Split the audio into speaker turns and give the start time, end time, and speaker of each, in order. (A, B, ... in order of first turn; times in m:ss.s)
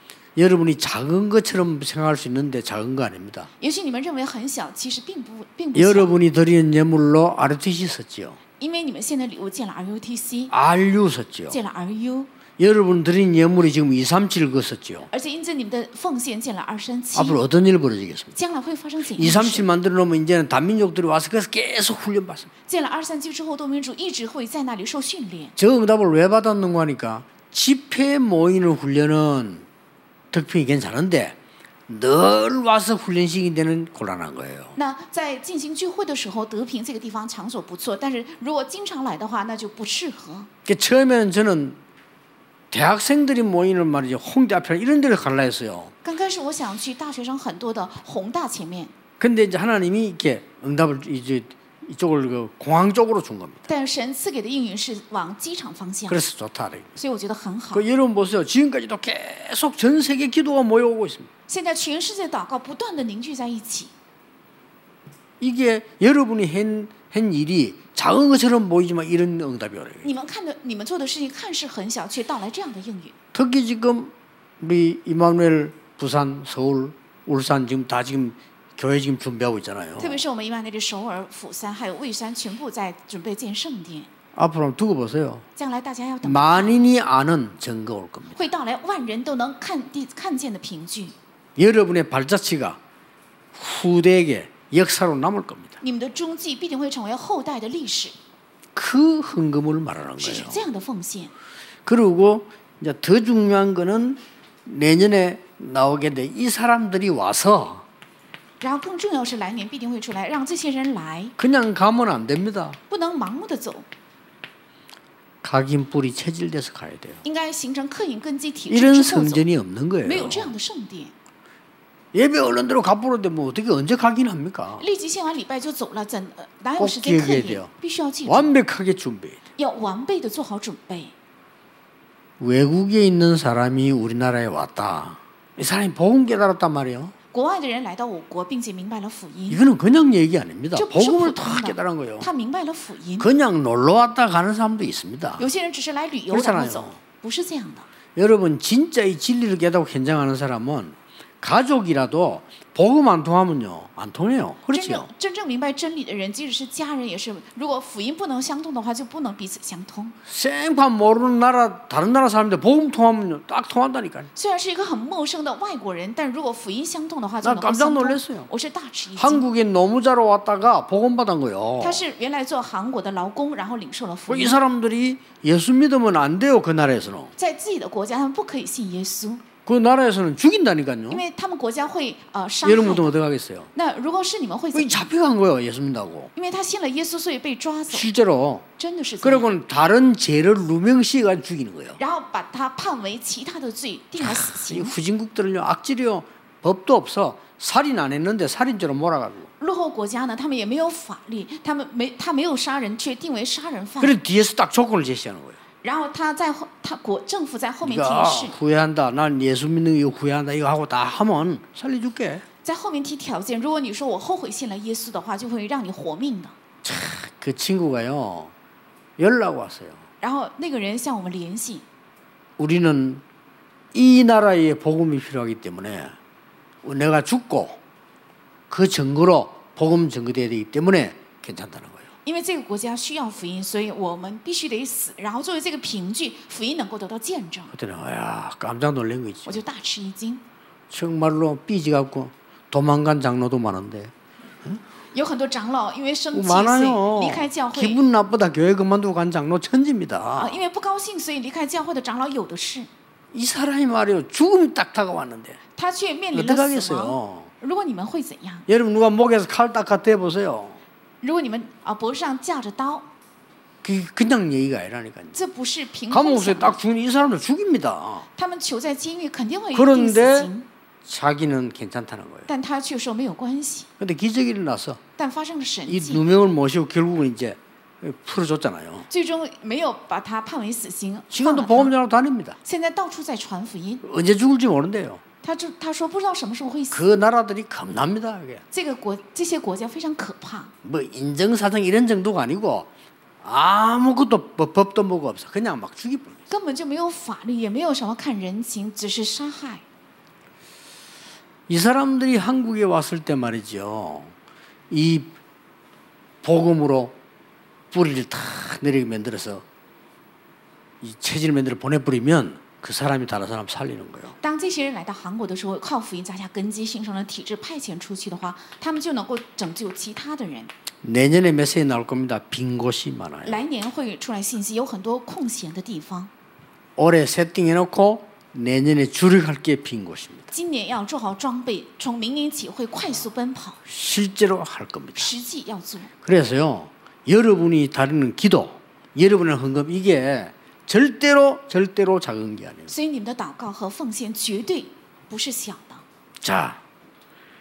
0:00.4-0:03.5 A
0:03.6-0:06.1 B
0:05.8-0:08.4 A
0:08.6-0:10.5 B
0:10.5-0:11.6 A
0:11.5-0:12.3 B
0:12.6-0:15.1 A
0:15.1-0:17.4 B
0:17.2-0:18.4 A
0:18.3-0:19.7 B
0:19.2-0:22.5 A
0:22.7-0:25.5 B
0:25.6-0:29.7 A
0:30.3-0:31.4 A
0:31.9-0:34.8 A
0:34.8-0:40.5 B
0:40.7-0:41.8 A
0:42.7-0:45.9 A
0:46.0-0:48.9 B
0:49.2-0:53.7 A
0:53.7-0:56.2 B
0:56.1-0:56.9 A
0:57.0-0:57.9 B
0:57.7-1:01.3 A
1:01.5-1:03.9 B
1:05.4-1:10.1 A
1:10.0-1:13.1 B
1:13.3-1:20.2 A
1:20.0-1:24.1 B
1:24.4-1:25.4 A
1:25.6-1:26.8 B
1:26.2-1:28.5 A
1:28.4-1:31.2 B
1:31.6-1:32.8 A
1:33.5-1:35.8 A
1:35.8-1:38.2 B
1:38.8-1:40.6 A
1:40.2-1:41.3 B
1:41.9-1:47.8 A
1:48.6-1:51.4 B
1:51.4-1:52.8 A
1:52.9-1:53.9 B
1:55.4-1:57.2 A
1:57.2-1:59.4 B
1:58.7-2:00.5 A
2:00.0-2:01.1 B
2:02.1-2:04.8 A
2:04.8-2:08.5 B
2:06.8-2:07.7 A
2:08.3-2:09.4 A
2:09.6-2:11.1 B
2:12.4-2:17.1 A
2:17.3-2:19.6 B
2:19.5-2:22.3 A
2:20.8-2:23.3 B
2:23.2-2:25.4 A
2:25.4-2:27.9 B
2:26.3-2:27.0 A
2:28.2-2:35.1 A
2:34.7-2:40.2 B
2:40.3-2:44.3 A
2:44.4-2:49.5 B
2:47.4-2:48.5 A
2:49.2-2:52.0 A
2:51.8-2:54.6 B
2:54.3-2:57.3 A
2:57.4-2:59.4 B
2:59.7-3:01.2 A
3:01.1-3:03.1 B
3:02.6-3:03.7 A
3:03.7-3:05.0 B
3:04.7-3:06.3 A
3:06.4-3:08.1 B
3:07.9-3:08.7 A
3:08.8-3:09.5 B
3:09.2-3:12.0 A
3:12.0-3:15.0 B
3:14.2-3:19.5 A
3:19.6-3:24.2 B
3:24.0-3:25.6 A
3:25.8-3:28.6 B
3:27.8-3:32.4 A
3:32.6-3:36.6 B
3:36.8-3:38.5 A
3:39.2-3:40.0 A
3:40.2-3:41.8 B
3:42.6-3:43.2 A
3:43.9-3:46.2 A
3:46.8-3:47.8 A
3:48.7-3:52.1 A
3:52.2-3:57.7 B
3:57.7-3:59.6 A
3:59.5-4:00.4 B
4:00.9-4:04.1 A
4:05.1-4:08.0 B
4:06.3-4:10.6 A
4:10.4-4:12.9 B
4:13.3-4:15.6 A
4:15.8-4:18.7 B
4:16.3-4:17.5 A
4:18.7-4:20.8 A
4:21.2-4:23.1 B
4:23.8-4:25.4 A
4:25.3-4:26.8 B
4:26.1-4:28.3 A
4:28.4-4:30.7 B
4:29.7-4:30.5 A
4:31.0-4:32.5 A
4:32.5-4:33.9 B
4:34.0-4:35.0 A
4:35.2-4:36.2 B
4:35.9-4:39.1 A
4:39.1-4:41.9 B
4:41.3-4:42.6 A
4:42.6-4:44.0 B
4:44.0-4:45.2 A
4:45.4-4:47.0 B
4:46.9-4:48.6 A
4:48.7-4:50.7 B
4:50.8-4:52.9 A
4:53.4-4:56.4 A
4:56.5-4:59.8 B
5:01.7-5:04.3 A
5:04.9-5:05.3 A
5:06.4-5:07.2 A
5:07.9-5:09.6 A
5:11.0-5:14.4 A
5:14.4-5:20.7 B
5:21.0-5:23.6 A
5:23.4-5:26.3 B
5:27.0-5:30.5 A
5:30.5-5:33.8 B
5:33.9-5:35.3 A
5:35.2-5:36.1 B
5:36.2-5:42.9 A
5:42.9-5:46.0 B
5:46.4-5:46.8 A